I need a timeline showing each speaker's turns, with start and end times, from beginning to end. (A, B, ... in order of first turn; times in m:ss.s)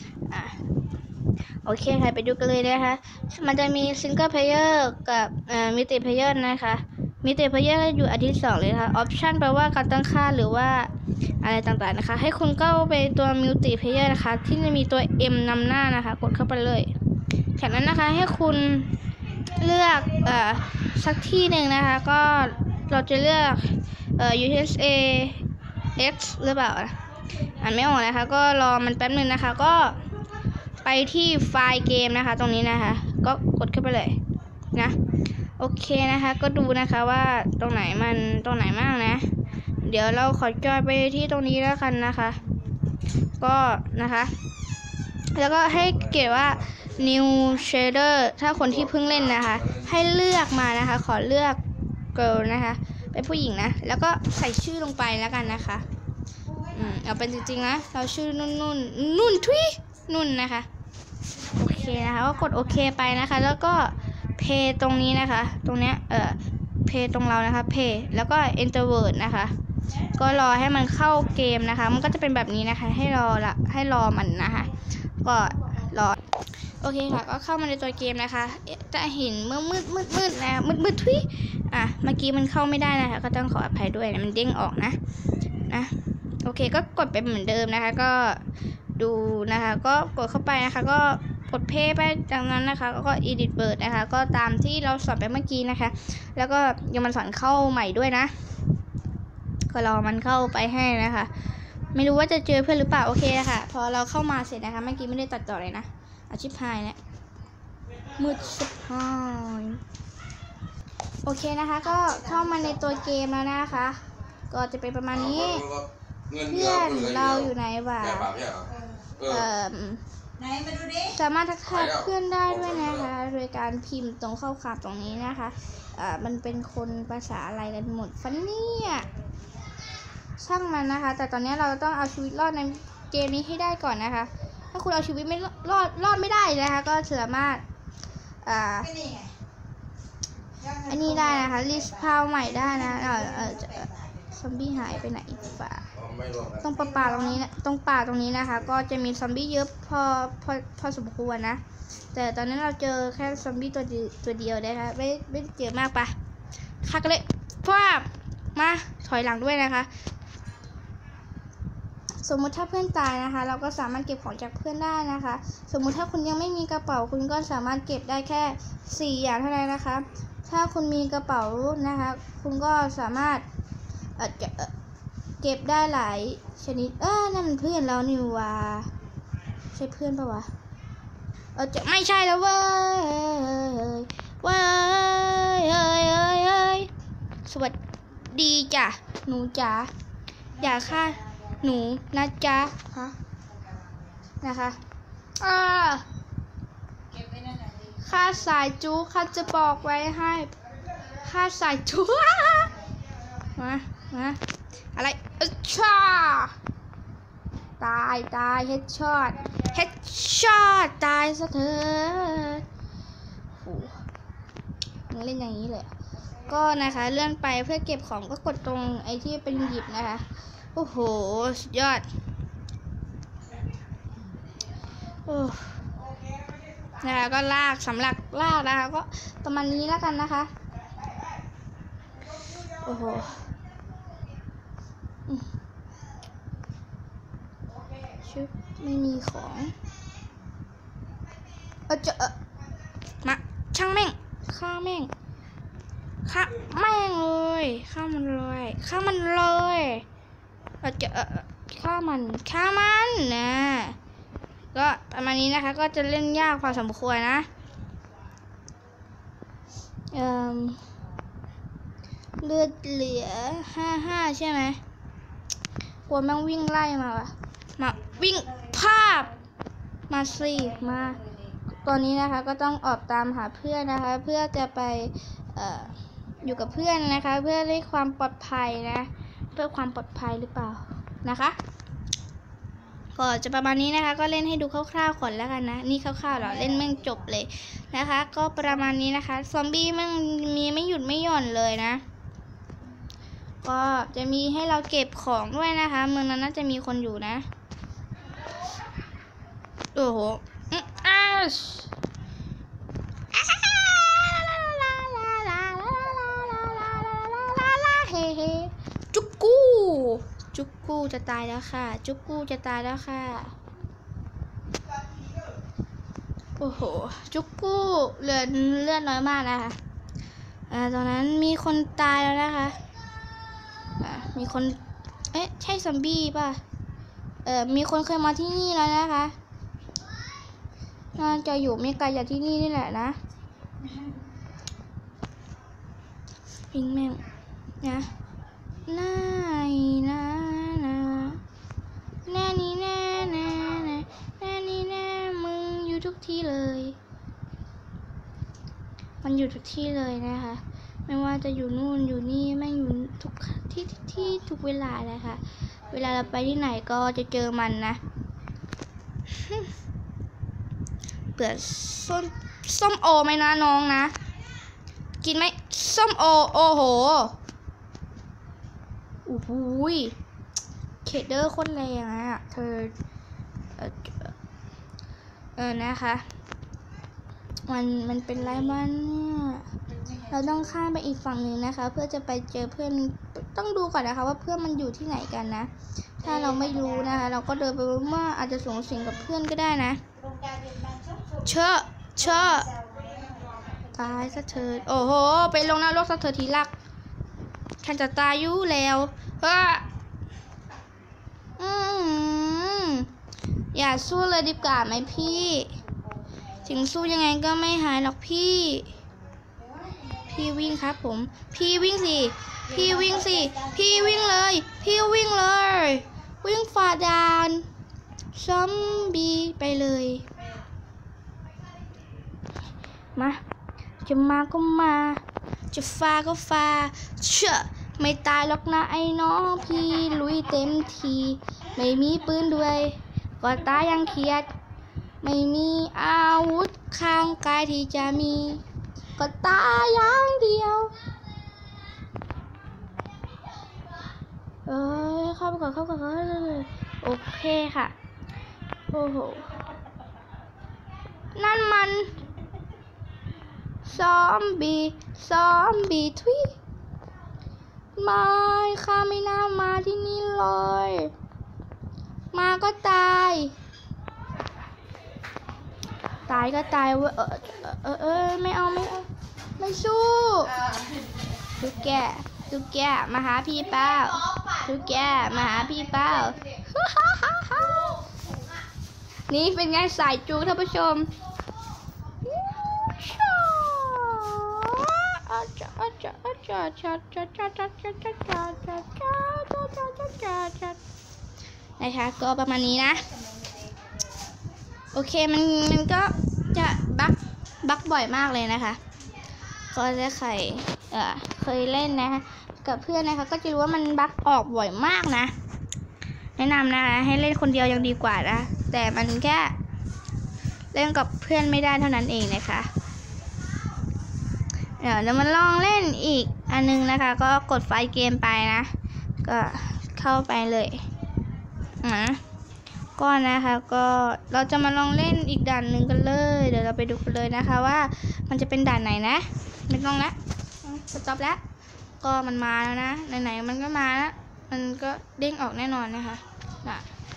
0:00.3-0:00.6 A
0:01.6-0:10.9 A
0:11.4-0:16.9 A
0:17.6-0:18.9 A
0:19.6-0:25.4 A
0:26.0-0:27.0 A
0:27.6-0:30.0 A
0:30.8-0:34.2 A
0:35.6-0:39.3 A
0:39.8-0:42.4 A
0:43.4-0:44.3 A
0:45.3-0:51.6 A
0:45.9-0:46.8 B
0:52.2-0:55.9 A
0:56.7-1:00.7 A
1:01.4-1:09.5 A
1:10.1-1:16.2 A
1:16.8-1:25.0 A
1:25.7-1:28.4 A
1:29.0-1:38.3 A
1:39.7-1:41.3 A
1:42.0-1:47.0 A
1:48.2-1:49.8 A
1:51.2-1:54.0 A
1:54.5-1:55.7 A
1:55.2-1:57.5 B
1:56.4-1:58.3 A
1:58.0-1:58.7 B
1:59.2-2:00.0 A
2:00.4-2:01.0 C
2:01.0-2:09.1 A
2:01.8-2:02.9 B
2:10.4-2:17.6 A
2:18.4-2:18.9 A
2:19.0-2:19.3 C
2:20.9-2:25.9 A
2:26.0-2:26.6 B
2:26.6-2:31.6 A
2:32.1-2:36.1 A
2:36.8-2:39.9 A
2:42.2-2:53.4 A
2:54.2-2:54.7 A
2:55.4-2:58.9 A
2:59.7-3:00.5 A
3:01.6-3:06.9 A
3:07.4-3:09.9 A
3:10.6-3:13.2 A
3:13.6-3:14.2 C
3:14.4-3:14.8 A
3:15.4-3:16.0 A
3:17.1-3:18.0 C
3:18.0-3:20.5 A
3:21.2-3:22.8 A
3:23.6-3:24.4 A
3:25.0-3:26.6 A
3:27.8-3:32.6 A
3:33.6-3:34.0 A
3:35.1-3:35.9 A
3:36.5-3:42.1 A
3:45.3-3:45.8 A
3:47.0-3:50.5 A
3:52.8-3:53.5 A
3:58.2-3:59.7 A
4:01.9-4:02.3 A
4:03.2-4:05.1 A
4:06.2-4:10.0 A
4:10.8-4:14.0 A
4:14.7-4:17.5 A
4:20.1-4:20.8 A
4:22.4-4:24.8 A
4:26.1-4:29.4 A
4:30.1-4:31.2 A
4:31.8-4:41.6 A
4:43.2-4:52.0 A
4:53.6-4:57.5 A
5:00.0-5:01.9 A
5:03.3-5:13.5 A
5:16.6-5:19.8 A
5:20.7-5:22.8 A
5:24.0-5:24.8 A
5:25.3-5:26.6 A
5:27.4-5:29.4 A
5:31.2-5:33.2 A
5:36.7-5:37.2 A
5:37.8-5:38.1 A
5:38.9-5:41.4 A
5:42.3-5:47.0 A
5:49.2-5:58.0 A
5:59.3-5:59.7 A
6:01.4-6:04.2 A
6:05.2-6:07.4 A
6:09.2-6:10.2 A
6:11.0-6:13.0 A
6:13.8-6:14.4 A
6:15.6-6:16.2 A
6:17.7-6:19.7 A
6:20.3-6:30.0 A
6:30.2-6:31.4 C
6:31.4-6:32.7 A
6:32.6-6:33.9 C
6:33.9-6:36.7 A
6:37.8-6:39.9 A
6:41.6-6:43.1 A
6:43.7-6:45.8 A
6:46.6-6:49.0 A
6:49.6-6:50.2 C
6:50.3-6:57.7 A
6:58.4-7:00.3 A
7:03.2-7:03.4 A
7:04.0-7:14.5 A
7:15.2-7:18.6 A
7:19.2-7:20.9 A
7:24.7-7:27.9 A
7:28.9-7:29.5 A
7:31.4-7:32.1 A
7:33.8-7:36.6 A
7:38.0-7:41.1 A
7:42.3-7:43.5 A
7:46.3-7:50.6 A
7:51.6-7:58.1 A
7:59.3-8:01.1 A
8:02.2-8:10.8 A
8:11.8-8:13.1 A
8:14.9-8:18.8 A
8:19.7-8:25.3 A
8:26.4-8:29.5 A
8:30.7-8:32.7 A
8:34.8-8:38.7 A
8:39.2-8:40.8 A
8:41.8-8:42.2 A
8:43.0-8:51.4 A
8:52.0-8:56.9 A